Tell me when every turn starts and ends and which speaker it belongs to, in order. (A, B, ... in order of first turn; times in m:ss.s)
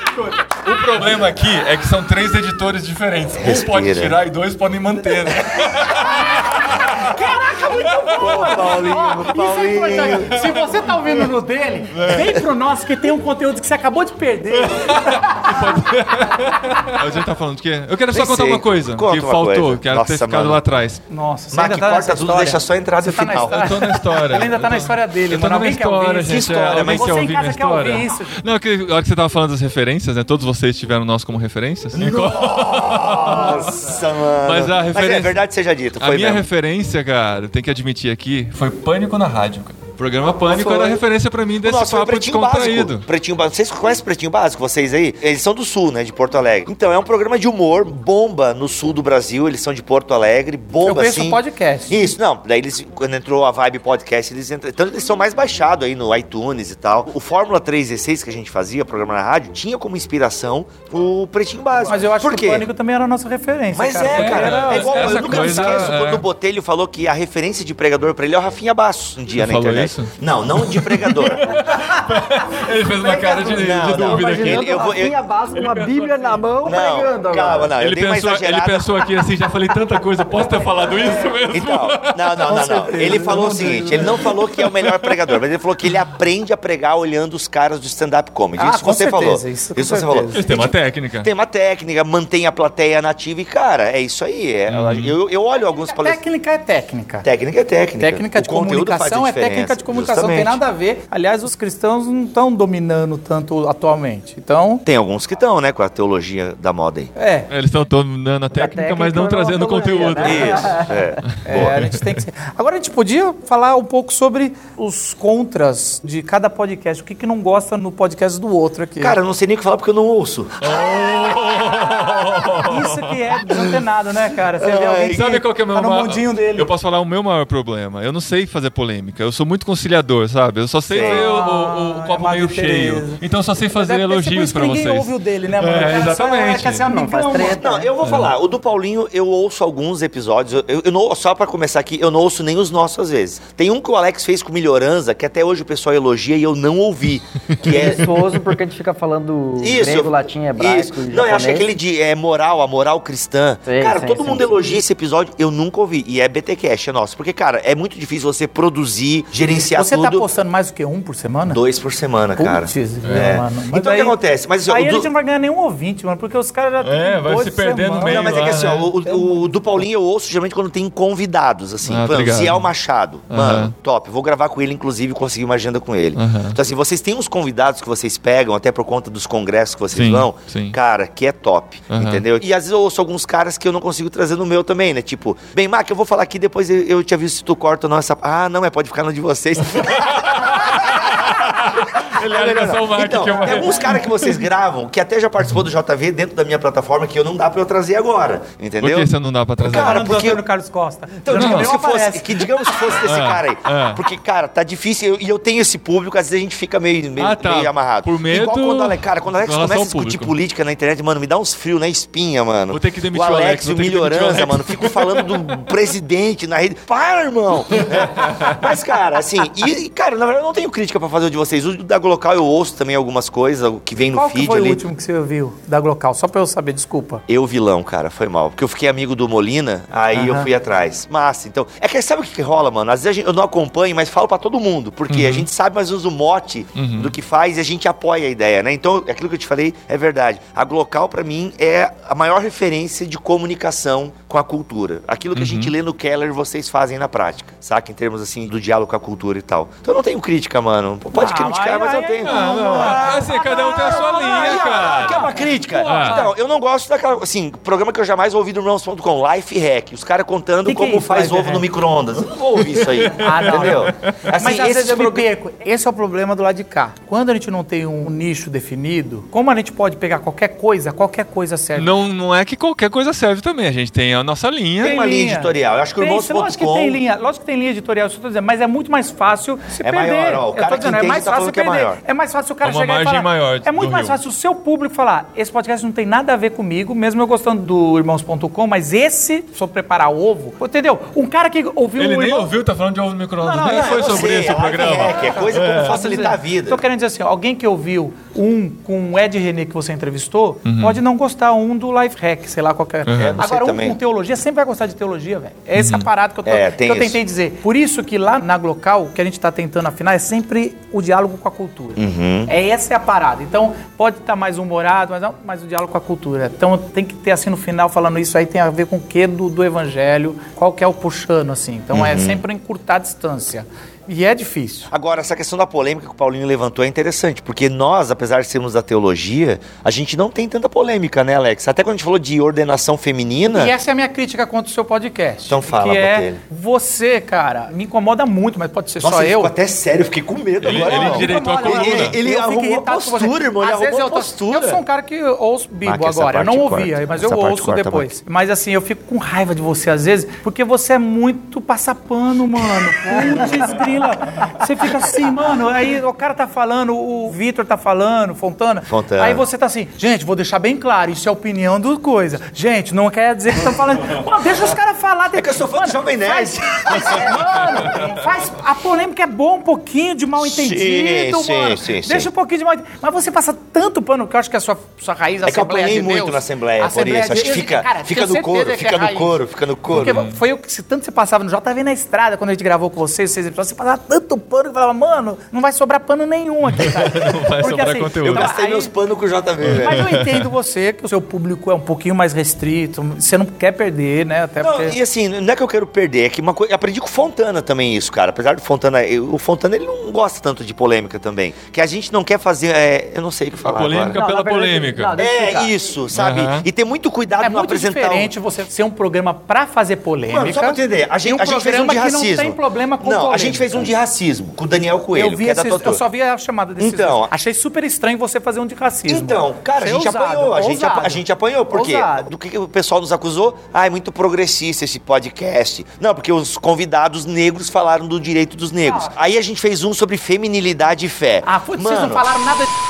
0:00.4-0:07.1 A
0:03.4-0:04.2 B
0:05.4-0:06.0 B
0:06.9-0:15.7 C
0:07.0-0:10.5 B
0:11.9-0:12.4 A
0:14.7-0:21.0 A
0:18.1-0:20.6 B
0:21.1-0:28.4 C
0:21.5-0:23.9 B
0:23.4-0:33.9 A
0:26.2-0:27.2 B
0:31.9-0:36.4 B
0:34.4-0:35.4 A
0:36.0-0:43.0 A
0:40.5-0:41.0 B
0:41.6-1:02.7 B
0:50.8-0:52.0 C
1:01.8-1:05.9 C
1:03.7-1:11.6 B
1:04.1-1:06.2 A
1:09.4-1:14.9 A
1:13.0-1:15.2 B
1:13.1-1:17.7 D
1:15.5-1:16.4 A
1:16.6-1:19.1 B
1:17.8-1:22.7 A
1:21.5-1:36.2 B
1:22.5-1:24.3 C
1:24.3-1:25.1 A
1:28.6-1:30.4 C
1:30.3-1:31.3 A
1:34.7-1:35.2 A
1:35.7-1:37.3 C
1:37.2-1:40.6 B
1:38.0-1:44.8 C
1:44.8-1:47.1 B
1:47.2-1:47.5 C
1:47.5-1:50.8 A
1:48.5-1:51.0 D
1:50.2-1:51.8 B
1:51.4-1:59.2 C
1:51.4-1:52.2 A
1:59.0-2:00.9 B
2:00.6-2:03.1 A
2:02.6-2:06.7 C
2:04.6-2:05.2 B
2:05.1-2:16.9 A
2:10.9-2:11.3 B
2:11.0-2:13.2 C
2:13.7-2:17.8 C
2:16.9-2:17.9 D
2:17.6-2:28.4 B
2:18.0-2:18.3 A
2:27.6-2:31.7 D
2:29.6-2:40.2 B
2:33.7-2:34.5 D
2:39.7-2:41.6 C
2:41.5-2:45.1 B
2:42.4-2:49.5 C
2:43.0-2:43.4 A
2:46.8-2:48.9 A
2:48.0-3:20.4 B
2:51.8-2:52.7 A
2:53.3-2:53.7 A
2:56.1-2:56.6 A
2:59.9-3:00.8 A
3:01.9-3:02.2 A
3:09.8-3:14.4 A
3:18.8-3:20.3 A
3:19.7-3:22.5 C
3:21.2-3:44.8 B
3:21.3-3:21.7 A
3:23.0-3:24.0 A
3:27.2-3:30.3 A
3:32.7-3:35.3 A
3:38.2-3:38.5 A
3:44.1-3:47.2 C
3:47.3-4:13.3 B
3:50.1-3:50.5 C
3:55.1-3:55.5 A
3:56.8-3:57.1 A
4:05.3-4:05.7 A
4:11.1-4:16.3 C
4:12.2-4:16.2 A
4:14.0-4:25.3 B
4:20.6-4:21.6 C
4:23.1-4:31.9 C
4:23.3-4:24.2 A
4:31.8-4:35.0 A
4:34.8-4:37.0 B
4:34.8-4:52.5 C
4:39.8-4:42.0 B
4:42.6-4:44.2 A
4:52.0-4:56.1 A
4:53.4-5:24.9 C
4:53.6-4:56.8 B
5:00.6-5:01.0 A
5:03.0-5:03.4 A
5:03.1-5:04.0 B
5:05.8-5:06.1 A
5:06.4-5:07.2 B
5:12.0-5:12.5 B
5:21.9-5:22.4 B
5:24.9-5:33.7 B
5:33.5-5:39.5 C
5:35.5-5:36.4 B
5:39.0-5:44.8 B
5:40.6-5:42.2 A
5:40.7-6:19.4 C
5:45.8-5:48.1 B
5:53.2-5:53.6 B
5:58.8-5:59.4 B
6:05.3-6:08.0 B
6:10.4-6:12.3 B
6:15.4-6:20.2 B
6:19.9-6:28.9 C
6:19.9-6:20.4 A
6:26.8-6:28.5 A
6:28.2-6:30.1 B
6:29.6-6:30.4 A
6:29.8-6:35.0 C
6:34.6-6:44.2 B
6:43.6-6:45.2 A
6:44.1-6:45.7 D
6:45.2-6:48.3 B
6:46.1-6:46.6 A
6:47.4-6:53.9 C
6:50.2-6:56.0 B
6:55.1-7:02.3 C
6:56.8-6:57.3 B
6:59.0-7:12.3 B
7:08.8-7:09.1 C
7:11.4-7:12.7 C